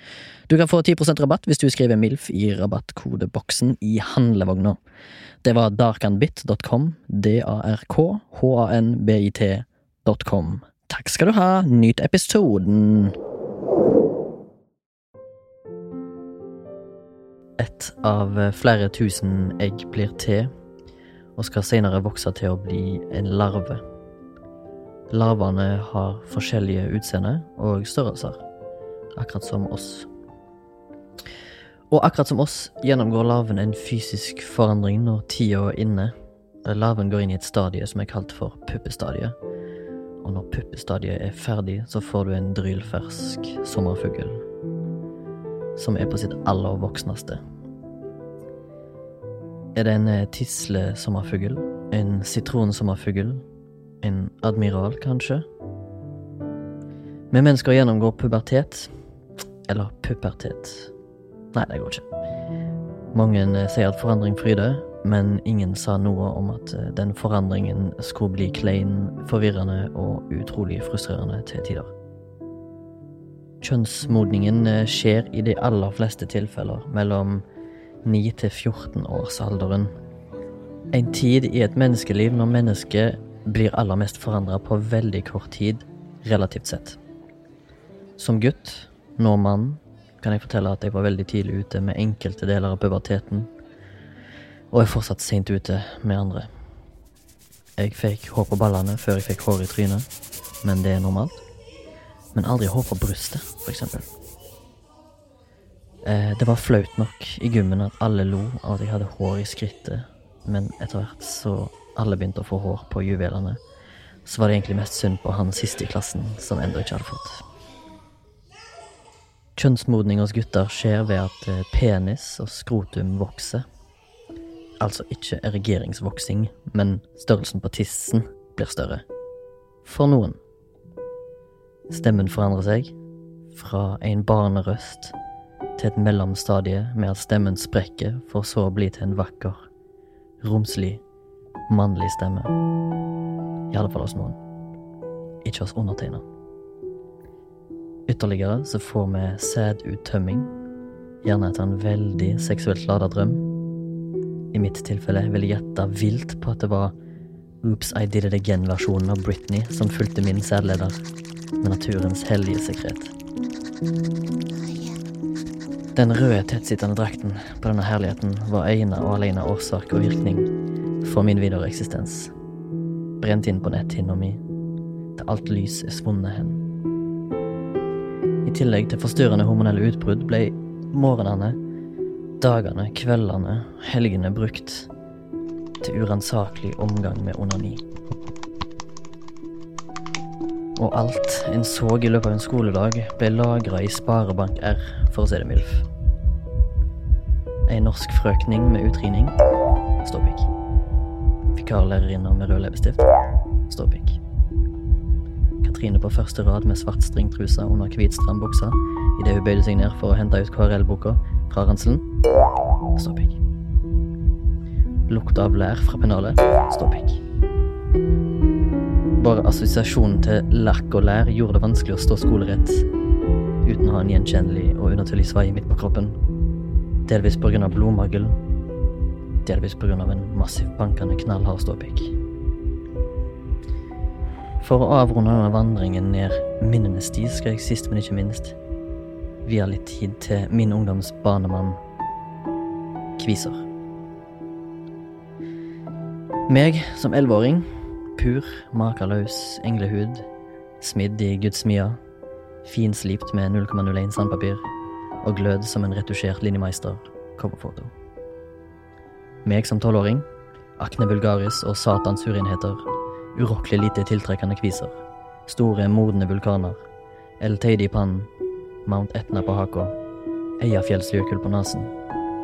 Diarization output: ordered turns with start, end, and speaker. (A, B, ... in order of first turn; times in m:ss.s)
0:00.5-0:04.8 A
0:05.4-0:13.2 A
0:17.6-0:20.5 A
0:21.4-0:23.8 A
0:25.1-0:28.4 A
0:29.2-0:30.1 A
0:31.9-0:36.1 A
0:36.6-0:39.4 A
0:40.2-0:44.4 A
0:45.8-0:47.4 A
0:49.8-0:53.4 A
0:54.0-0:55.4 A
0:57.3-0:58.9 A
0:59.7-1:00.9 A
1:01.5-1:02.1 A
1:03.1-1:11.9 A
1:13.6-1:17.4 A
1:18.0-1:19.9 A
1:20.9-1:27.0 A
1:28.2-1:33.5 A
1:34.7-1:36.5 A
1:37.8-1:40.1 A
1:40.6-1:41.4 A
1:42.3-1:44.1 A
1:46.0-1:53.6 A
1:54.3-1:57.4 A
1:59.6-2:03.6 A
2:04.8-2:09.0 A
2:09.8-2:10.4 A
2:11.9-2:12.9 A
2:13.5-2:15.1 A
2:15.8-2:19.6 A
2:20.4-2:21.0 A
2:21.7-2:22.5 A
2:23.7-2:24.4 A
2:25.4-2:26.2 A
2:28.1-2:30.5 A
2:31.2-2:33.4 A
2:34.5-2:36.9 A
2:37.6-2:41.0 A
2:41.6-2:43.1 A
2:46.0-2:50.5 A
2:51.0-2:52.3 A
2:53.2-2:54.4 A
2:55.2-2:56.6 A
2:58.4-3:01.6 A
3:02.4-3:04.9 A
3:05.8-3:07.8 A
3:10.8-3:15.9 A
3:17.7-3:19.3 A
3:20.0-3:20.5 A
3:21.6-3:23.1 A
3:23.7-3:24.2 A
3:25.6-3:32.0 A
3:33.0-3:33.4 A
3:35.1-3:37.2 A
3:39.2-3:42.9 A
3:43.6-3:46.2 A
3:47.1-3:48.4 A
3:49.4-3:52.2 A
3:54.6-3:58.6 A
3:59.4-4:01.8 A
4:03.2-4:03.6 A
4:06.5-4:07.6 A
4:08.2-4:10.2 A
4:10.8-4:12.0 A
4:12.6-4:14.6 A
4:15.2-4:17.9 A
4:19.4-4:20.3 A
4:20.8-4:22.8 A
4:23.4-4:24.9 A
4:25.5-4:26.8 A
4:27.4-4:28.3 A
4:28.9-4:30.0 A
4:30.6-4:31.9 A